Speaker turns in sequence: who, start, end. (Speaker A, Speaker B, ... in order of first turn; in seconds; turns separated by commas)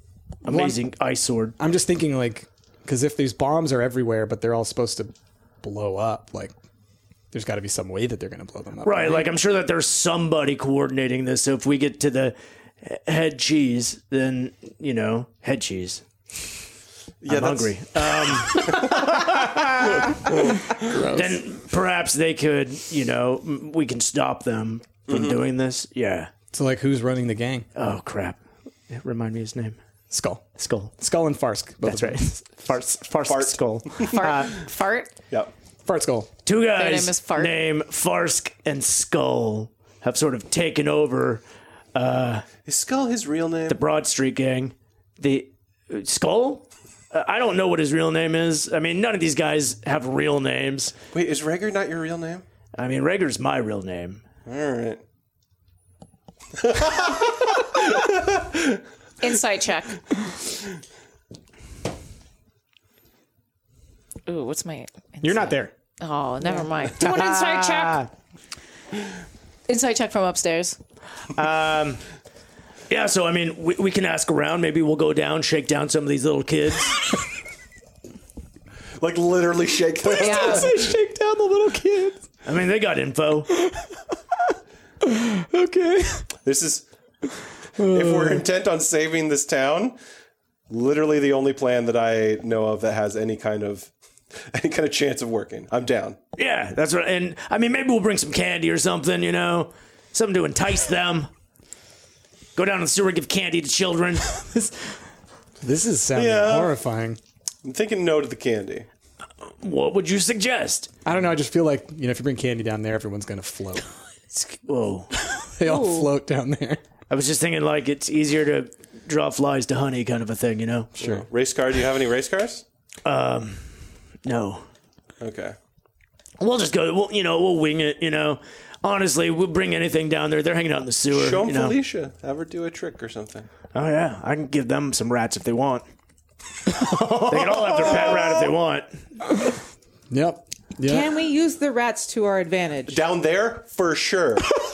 Speaker A: 0.4-1.6, Speaker B: 0.5-0.8, Speaker B: 1.6-6.5, Speaker B: 7.3-9.3, Speaker A: 8.8-16.0, Speaker C: 17.2-19.1, Speaker A: 17.2-20.0, Speaker B: 18.7-21.4, Speaker A: 21.1-26.3, Speaker C: 25.1-25.4, Speaker B: 26.5-27.6, Speaker A: 27.7-28.4, Speaker A: 28.9-29.8, Speaker B: 30.1-30.4, Speaker A: 30.6-30.9, Speaker B: 31.0-32.3, Speaker A: 31.8-34.5, Speaker C: 33.2-34.2, Speaker D: 34.0-35.1, Speaker B: 35.8-36.3, Speaker A: 36.4-41.4, Speaker D: 36.8-37.6, Speaker A: 41.9-42.5, Speaker C: 42.6-43.8, Speaker A: 43.7-50.9, Speaker C: 51.1-52.4, Speaker A: 52.8-54.2, Speaker C: 54.5-55.0, Speaker C: 56.6-58.8, Speaker D: 59.2-60.0, Speaker D: 64.2-68.0, Speaker B: 65.2-65.7, Speaker A: 67.0-68.1, Speaker D: 69.7-70.8, Speaker A: 71.3-72.0, Speaker A: 72.9-77.1, Speaker C: 79.0-80.8, Speaker B: 80.0-82.2, Speaker D: 80.2-80.7, Speaker A: 82.4-83.5, Speaker B: 83.5-83.9, Speaker B: 85.0-86.3, Speaker C: 86.4-86.8, Speaker B: 87.8-88.4, Speaker C: 87.8-90.0, Speaker C: 90.7-96.2, Speaker A: 96.3-101.3, Speaker A: 102.5-104.7, Speaker B: 105.6-107.2, Speaker C: 106.1-106.7, Speaker C: 107.6-108.9, Speaker A: 109.6-110.9, Speaker B: 111.0-113.8, Speaker A: 114.3-115.1, Speaker B: 115.2-116.8, Speaker E: 115.6-116.1, Speaker A: 117.1-121.2, Speaker C: 121.0-122.6, Speaker A: 123.0-123.6, Speaker A: 124.2-124.6, Speaker C: 125.2-125.5, Speaker A: 126.4-131.8, Speaker C: 131.1-133.5, Speaker A: 133.7-135.8, Speaker A: 136.7-138.9, Speaker B: 136.8-138.0, Speaker B: 140.1-141.1, Speaker E: 140.8-143.0, Speaker C: 142.9-144.5